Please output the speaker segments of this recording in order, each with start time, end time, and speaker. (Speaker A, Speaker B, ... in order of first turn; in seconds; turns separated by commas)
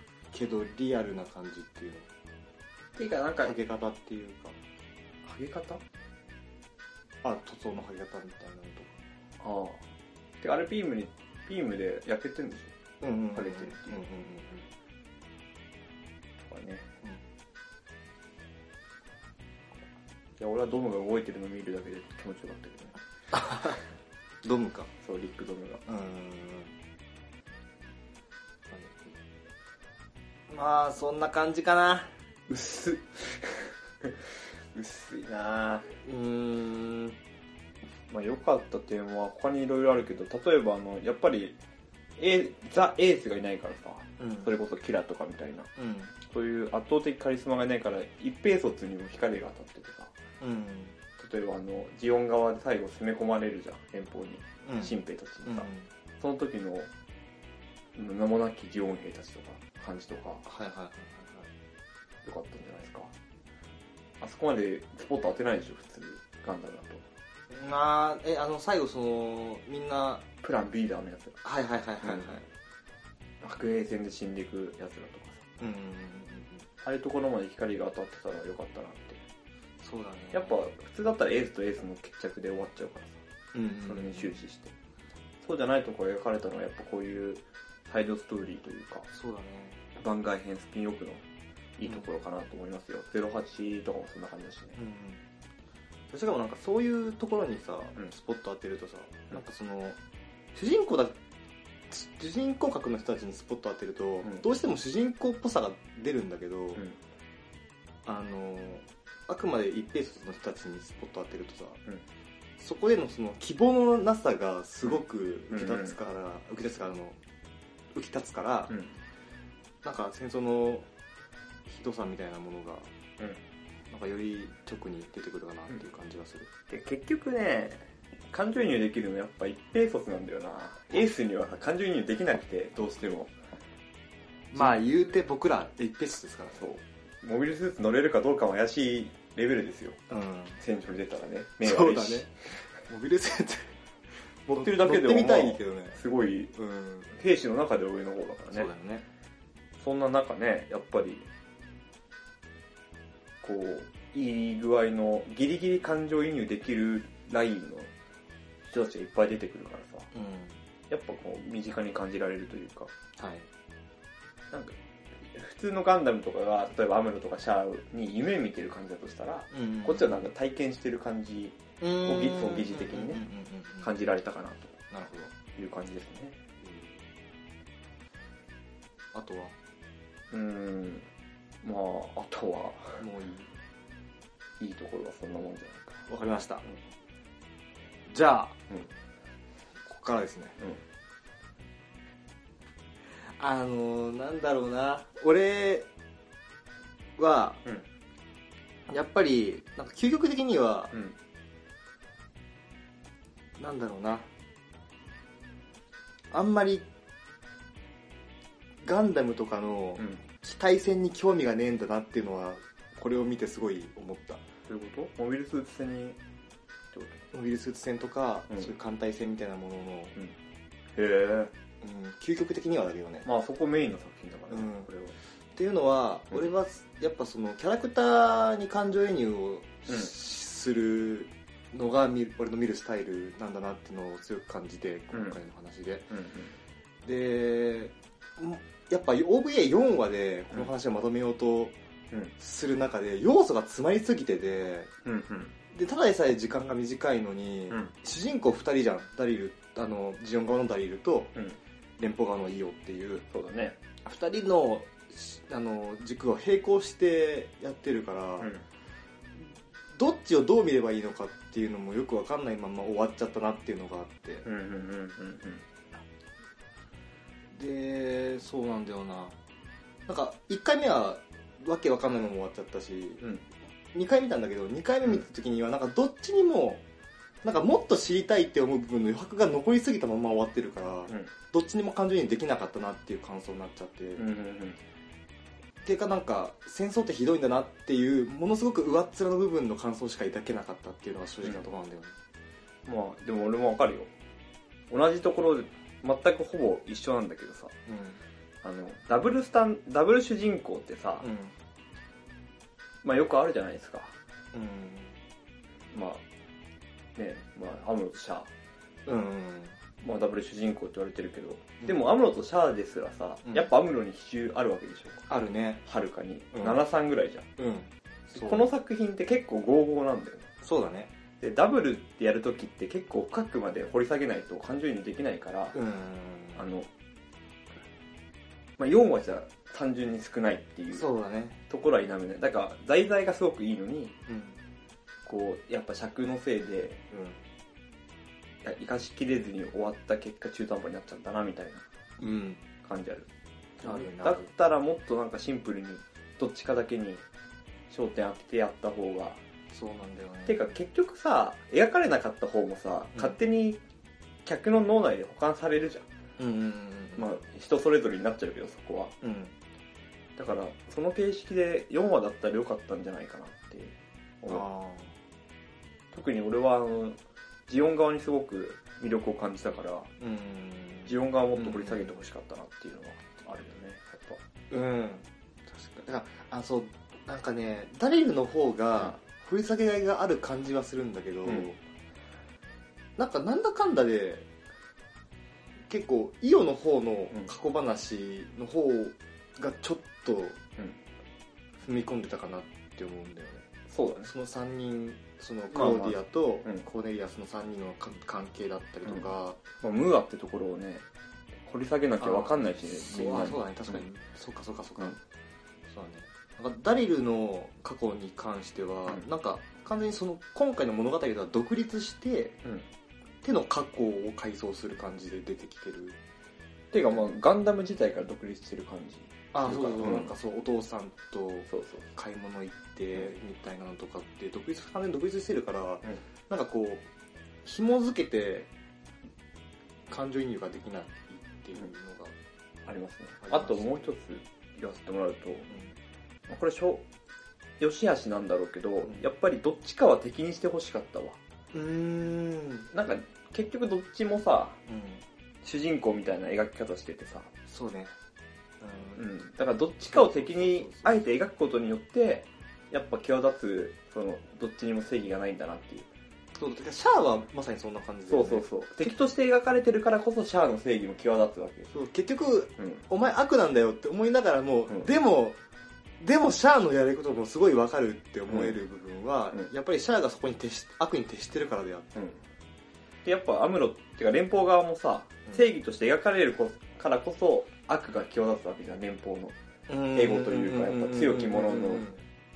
Speaker A: 0.3-2.1, Speaker B: 2.9-3.5, Speaker A: 3.4-4.6, Speaker B: 5.2-5.8, Speaker A: 7.2-9.0, Speaker B: 9.4-9.8, Speaker B: 10.4-12.7, Speaker A: 13.0-14.7, Speaker B: 13.3-14.0, Speaker B: 16.4-16.9, Speaker B: 20.4-22.9, Speaker A: 23.3-23.8, Speaker A: 24.4-24.9, Speaker B: 25.0-25.8, Speaker A: 25.9-26.7, Speaker A: 28.7-29.1, Speaker A: 30.5-32.1, Speaker B: 32.5-35.9, Speaker A: 36.0-37.2, Speaker B: 38.1-41.6, Speaker B: 42.2-45.7, Speaker A: 44.2-44.5, Speaker A: 45.8-46.1, Speaker B: 46.2-50.1, Speaker A: 50.4-51.0, Speaker B: 51.2-55.7, Speaker A: 54.6-55.9, Speaker B: 56.2-56.9, Speaker B: 57.9-60.4, Speaker A: 60.4-61.5, Speaker B: 62.2-63.1, Speaker B: 64.2-67.0, Speaker A: 67.5-70.2, Speaker B: 70.4-71.4, Speaker A: 71.4-72.5, Speaker B: 72.0-72.3, Speaker B: 73.4-75.4, Speaker A: 75.6-76.7, Speaker B: 76.8-79.2, Speaker A: 79.8-80.6, Speaker B: 80.3-83.2, Speaker A: 83.5-84.3, Speaker B: 83.8-84.7, Speaker B: 85.4-89.0, Speaker A: 89.1-89.8, Speaker B: 90.0-91.2, Speaker B: 91.8-94.8, Speaker A: 94.8-95.2, Speaker A: 96.1-100.0, Speaker A: 100.5-101.2, Speaker A: 101.9-106.8, Speaker A: 108.0-111.8, Speaker A: 112.6-117.2, Speaker B: 115.5-115.9, Speaker A: 117.9-118.8, Speaker A: 119.8-120.9, Speaker A: 121.7-122.9, Speaker A: 123.9-126.5, Speaker B: 126.7-133.3, Speaker A: 134.5-136.6, Speaker B: 134.5-134.8, Speaker B: 136.6-140.0, Speaker A: 140.1-140.6, Speaker B: 140.6-142.3, Speaker A: 141.6-143.8, Speaker A: 144.4-146.0, Speaker B: 144.5-146.5, Speaker A: 146.5-147.1, Speaker B: 147.1-148.7, Speaker A: 148.5-149.1, Speaker B: 149.8-151.3, Speaker B: 153.4-157.9, Speaker B: 158.7-160.1, Speaker A: 160.1-160.6, Speaker B: 160.9-162.9, Speaker A: 163.2-163.5, Speaker B: 164.5-173.2, Speaker A: 169.5-170.2, Speaker A: 171.8-173.9, Speaker B: 173.8-174.8, Speaker A: 174.9-175.3, Speaker B: 175.5-176.4, Speaker A: 176.6-177.0, Speaker A: 179.1-179.5, Speaker B: 180.3-181.1, Speaker B: 181.6-183.0, Speaker A: 183.0-183.5, Speaker B: 184.6-186.0, Speaker A: 186.1-186.7, Speaker A: 188.1-188.6, Speaker A: 189.8-190.6, Speaker A: 193.1-195.9, Speaker A: 197.2-197.6, Speaker A: 198.9-200.9, Speaker A: 203.6-204.3, Speaker A: 206.3-206.9, Speaker A: 208.8-214.4, Speaker B: 214.7-216.2, Speaker B: 216.9-217.2, Speaker A: 217.3-220.2, Speaker B: 220.9-221.5, Speaker A: 221.8-223.3, Speaker B: 223.2-225.2, Speaker A: 224.5-224.9, Speaker A: 225.5-236.1, Speaker B: 236.1-236.5, Speaker A: 237.0-241.8, Speaker A: 242.4-244.9, Speaker B: 245.0-245.5, Speaker A: 245.7-251.3, Speaker A: 252.0-253.2, Speaker B: 253.3-253.8, Speaker A: 254.0-258.5, Speaker A: 259.4-264.4, Speaker B: 264.4-265.6, Speaker A: 267.5-269.3, Speaker A: 270.1-273.3, Speaker A: 273.9-276.8, Speaker A: 277.4-284.2, Speaker B: 284.2-284.8, Speaker A: 285.8-292.1, Speaker B: 292.9-294.1, Speaker B: 294.9-297.7, Speaker A: 297.9-298.2, Speaker B: 298.6-301.2, Speaker A: 301.2-301.5, Speaker B: 303.0-304.1, Speaker A: 304.5-305.1, Speaker B: 305.9-306.2, Speaker B: 307.1-308.5, Speaker A: 309.1-309.8, Speaker B: 310.0-315.2, Speaker A: 315.3-315.8, Speaker B: 315.9-317.5, Speaker A: 316.5-316.8, Speaker A: 317.6-318.7, Speaker B: 318.3-320.5, Speaker A: 320.6-321.1, Speaker B: 321.4-325.8, Speaker A: 325.7-326.6, Speaker B: 326.6-326.9, Speaker B: 328.8-331.1, Speaker A: 330.9-331.6, Speaker B: 331.7-334.1, Speaker A: 334.3-334.6, Speaker B: 335.2-337.0, Speaker A: 337.1-337.4, Speaker B: 338.6-341.8, Speaker A: 342.2-342.6, Speaker B: 342.8-343.3, Speaker B: 343.8-347.2, Speaker A: 343.8-344.5, Speaker B: 347.9-349.4, Speaker A: 349.7-350.7, Speaker B: 350.4-353.8, Speaker B: 354.4-356.1, Speaker A: 356.4-357.3, Speaker B: 357.1-359.1, Speaker A: 359.2-359.5, Speaker B: 360.4-364.6, Speaker A: 364.4-365.1, Speaker B: 366.1-370.1, Speaker A: 370.2-372.2, Speaker B: 371.1-374.4, Speaker A: 374.7-381.8, Speaker A: 383.2-384.4, Speaker A: 385.9-390.6, Speaker A: 391.8-393.6, Speaker B: 393.9-394.3, Speaker A: 394.2-399.6, Speaker B: 395.7-396.8, Speaker B: 399.8-401.0, Speaker B: 401.6-404.0, Speaker A: 402.2-405.2, Speaker A: 405.9-412.6, Speaker A: 413.4-416.2, Speaker B: 416.9-420.3, Speaker A: 419.5-427.1, Speaker B: 421.7-422.0, Speaker A: 427.6-428.7, Speaker A: 430.1-432.3, Speaker B: 432.9-435.7, Speaker A: 433.4-434.1, Speaker B: 436.5-437.1, Speaker B: 437.8-441.4, Speaker A: 441.7-442.9, Speaker B: 442.9-444.8, Speaker A: 444.9-445.2, Speaker B: 445.6-447.5, Speaker A: 447.7-448.1, Speaker A: 448.8-449.2, Speaker B: 449.1-456.1, Speaker A: 450.1-451.2, Speaker A: 456.5-458.6, Speaker B: 458.3-461.9, Speaker A: 461.9-465.6, Speaker A: 466.2-472.2, Speaker B: 468.5-468.7, Speaker B: 473.2-479.6, Speaker A: 479.9-482.2, Speaker B: 480.1-482.1